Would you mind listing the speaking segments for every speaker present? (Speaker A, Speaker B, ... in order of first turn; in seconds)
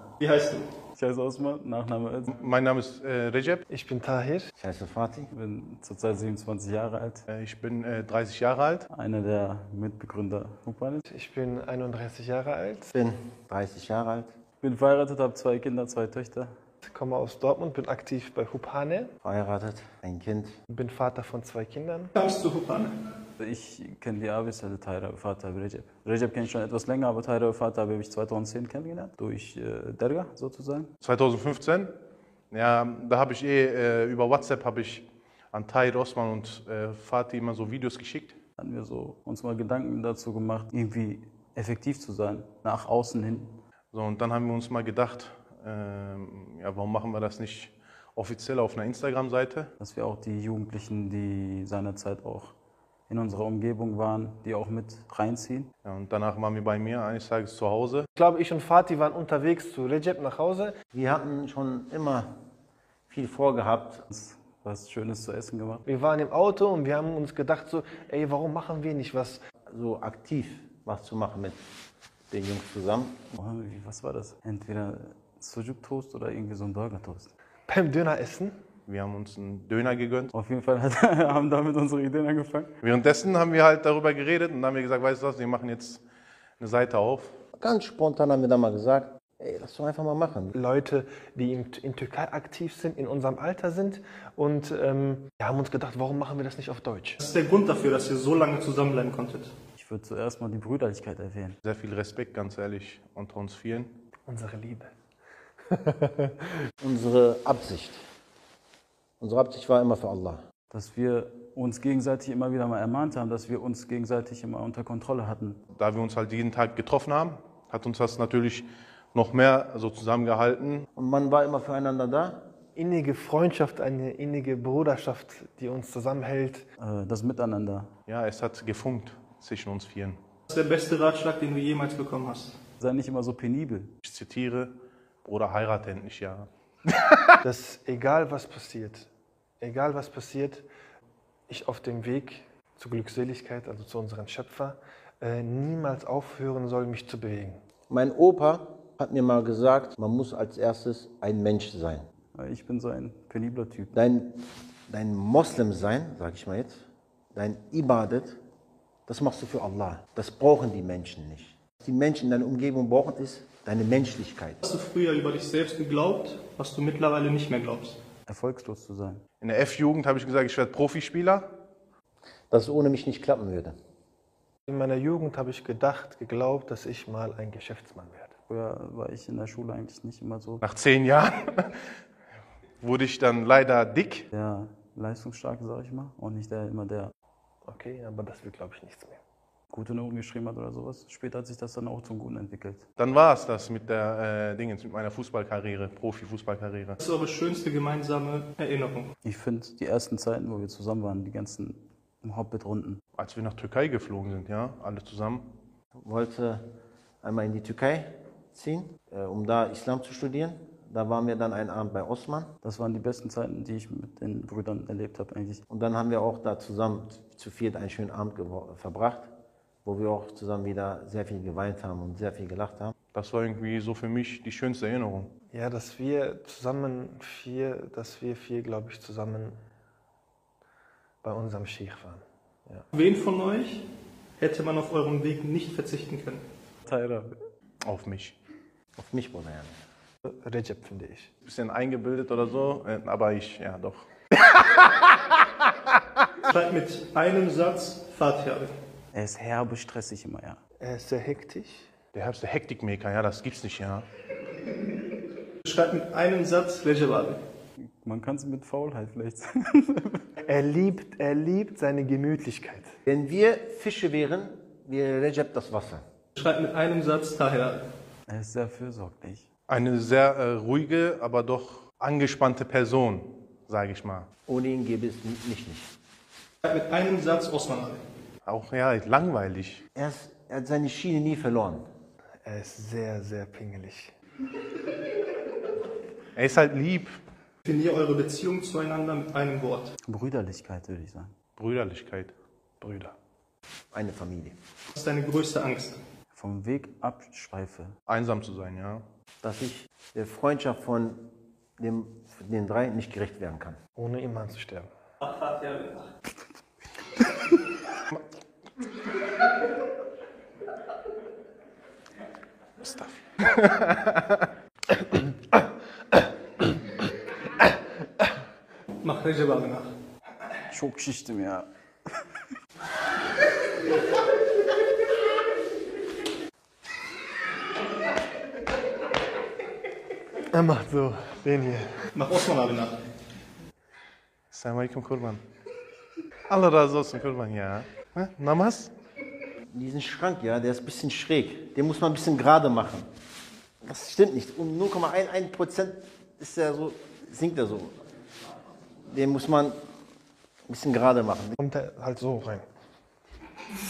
Speaker A: 0.2-0.7, 22.1-23.0, 97.2-99.5, 130.5-132.6, 164.6-168.0, 197.0-199.1, 232.9-233.9, 234.4-236.4, 246.4-248.7, 255.6-257.4, 266.4-267.8, 276.6-278.0, 287.6-289.9, 294.9-296.0, 305.2-306.1, 319.0-319.9, 332.1-333.0
Speaker B: 0.9-2.3, 5.3-7.2, 8.9-11.0, 14.6-16.5, 23.4-30.9, 38.6-43.5, 49.8-52.5, 53.1-55.7, 64.1-65.8, 73.3-77.3, 80.3-82.7, 99.8-101.6, 110.7-115.6, 126.8-127.9, 132.8-133.9, 152.3-154.0, 168.3-169.2, 178.5-180.6, 184.3-187.1, 189.7-192.8, 199.2-203.0, 212.6-215.6, 236.8-237.4, 249.1-250.6, 257.8-260.2, 268.3-269.5, 290.0-291.3, 296.3-297.9, 320.7-321.7
Speaker C: 2.3-3.6, 7.3-8.9, 31.0-31.9, 32.5-38.4, 43.9-49.7, 55.8-58.1, 78.9-80.3, 82.8-86.0, 86.6-87.4, 101.6-103.9, 115.8-120.9, 128.1-130.2, 134.0-137.4, 169.4-171.5, 180.6-181.7, 182.8-184.3, 193.0-197.0, 203.2-205.5, 223.1-225.3, 237.8-238.4, 241.4-245.1, 252.1-254.1, 269.7-274.3, 278.4-279.8, 286.4-287.2, 291.6-292.3, 298.1-299.0, 312.8-314.5, 334.5-335.4, 336.5-338.9
Speaker D: 3.7-4.5, 11.1-12.9, 16.8-19.1, 20.7-22.1, 58.2-60.7, 65.8-69.4, 77.7-78.5, 90.5-97.2, 104.3-104.9, 105.7-106.3, 122.8-126.7, 137.4-139.1, 139.6-140.7, 141.5-147.6, 174.7-178.3, 187.7-189.2, 225.5-229.6, 231.2-232.9, 240.2-241.3, 250.8-251.9, 260.4-262.9, 282.4-284.1, 292.8-293.1, 303.9-304.9, 330.5-331.9, 351.6-352.6
Speaker E: 4.6-5.3, 12.9-14.3, 19.2-20.6, 60.9-62.3, 63.1-64.0, 69.7-71.6, 72.3-73.2, 87.6-90.5, 106.8-108.0, 109.2-110.4, 121.0-122.4, 147.9-152.1, 153.9-158.4, 159.1-164.6, 172.5-173.8, 206.0-206.6, 207.2-212.5, 215.7-219.3, 219.8-222.9, 239.0-239.8, 263.1-266.0, 274.5-275.9, 279.9-281.9, 293.9-294.5, 299.4-301.3, 301.8-303.8, 339.7-343.1, 343.8-347.9, 349.1-349.8, 350.7-351.6